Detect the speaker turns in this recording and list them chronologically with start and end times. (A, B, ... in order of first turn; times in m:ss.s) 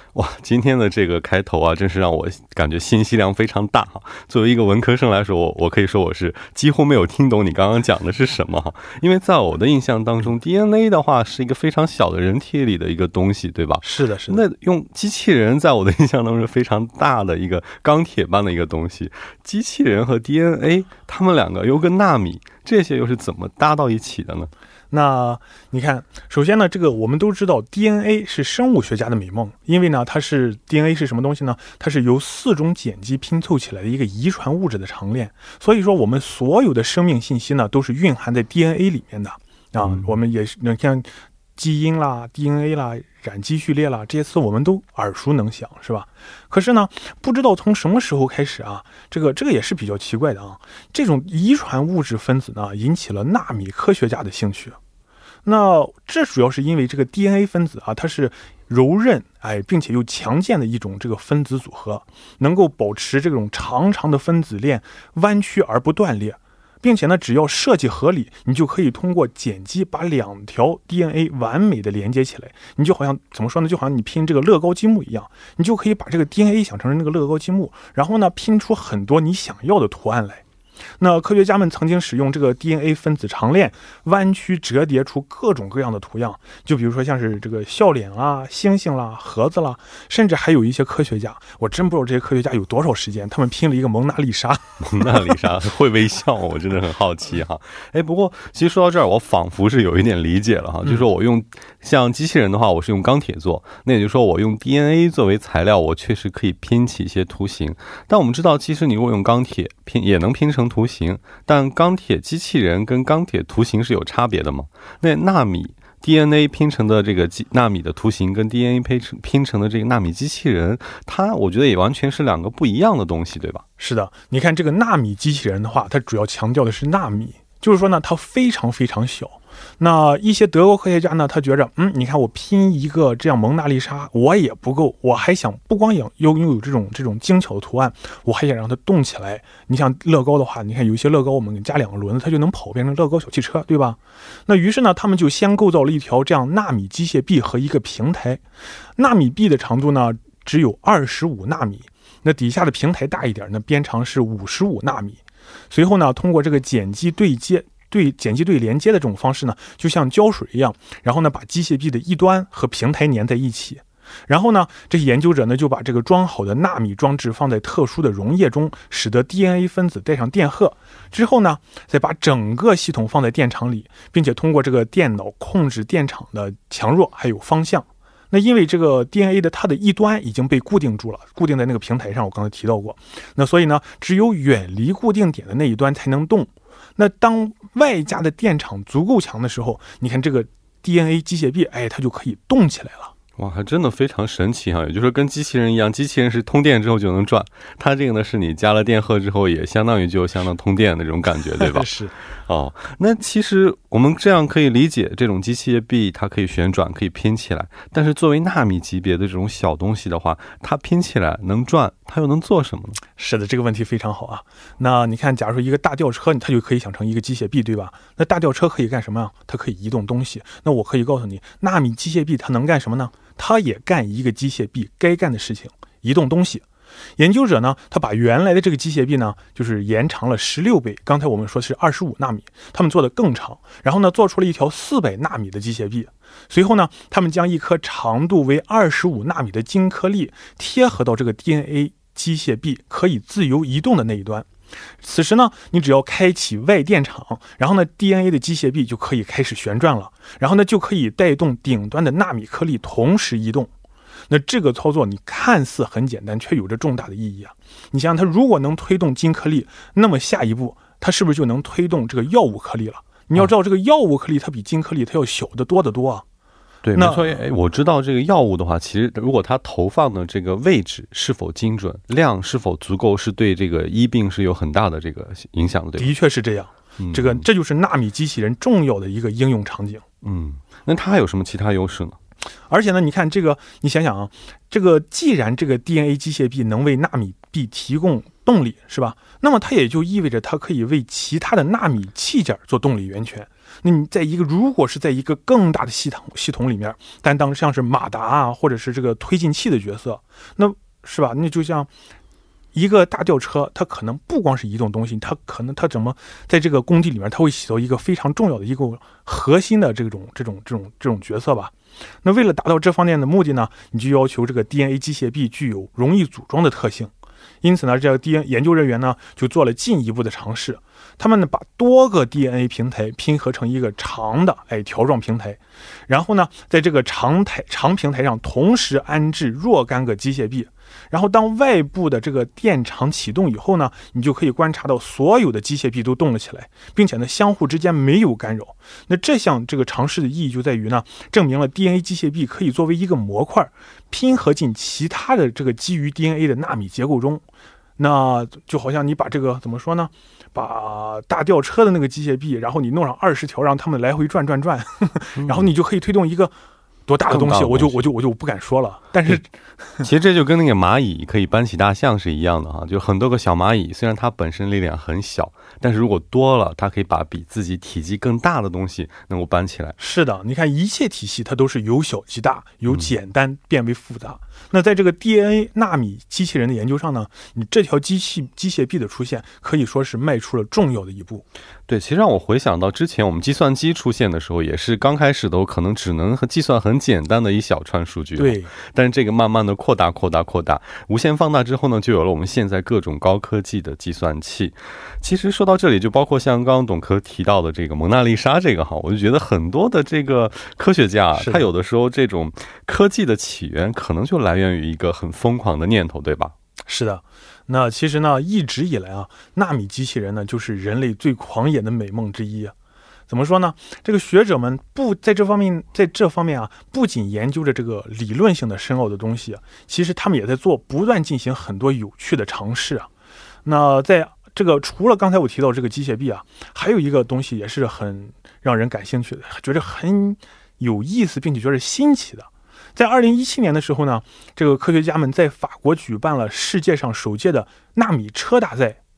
0:00.1-0:24.5 A
0:13.8-0:14.4 B
0:24.9-0:54.8 B
0:39.8-0:40.1 A
0:55.4-1:20.4 B
1:21.0-1:35.4 B
1:34.8-2:03.6 A
2:03.8-2:28.4 B
2:29.0-2:35.2 B
2:35.7-3:13.1 B
3:13.4-3:21.9 A
3:21.6-3:22.1 B
3:22.5-3:33.0 A
3:33.2-3:46.6 B
3:47.2-4:04.5 B
4:05.0-4:13.7 B
4:14.3-4:26.2 B
4:26.8-4:36.1 A
4:27.0-4:27.4 B
4:36.0-4:40.0 B
4:37.0-4:37.4 A
4:40.2-4:42.2 A
4:42.7-5:01.9 B
5:02.7-5:17.1 B
5:17.6-5:47.4 B
5:48.0-5:56.5 B
5:55.4-5:55.7 A
5:57.1-5:59.5 B
5:57.2-5:58.0 A
6:00.0-6:10.0 A
6:10.0-6:21.4 B
6:12.9-6:13.1 A
6:21.9-6:46.5 A
6:28.4-6:28.7 B
6:41.4-6:41.6 B
6:46.9-6:52.7 B
6:53.3-7:03.1 B
7:03.6-7:19.0 B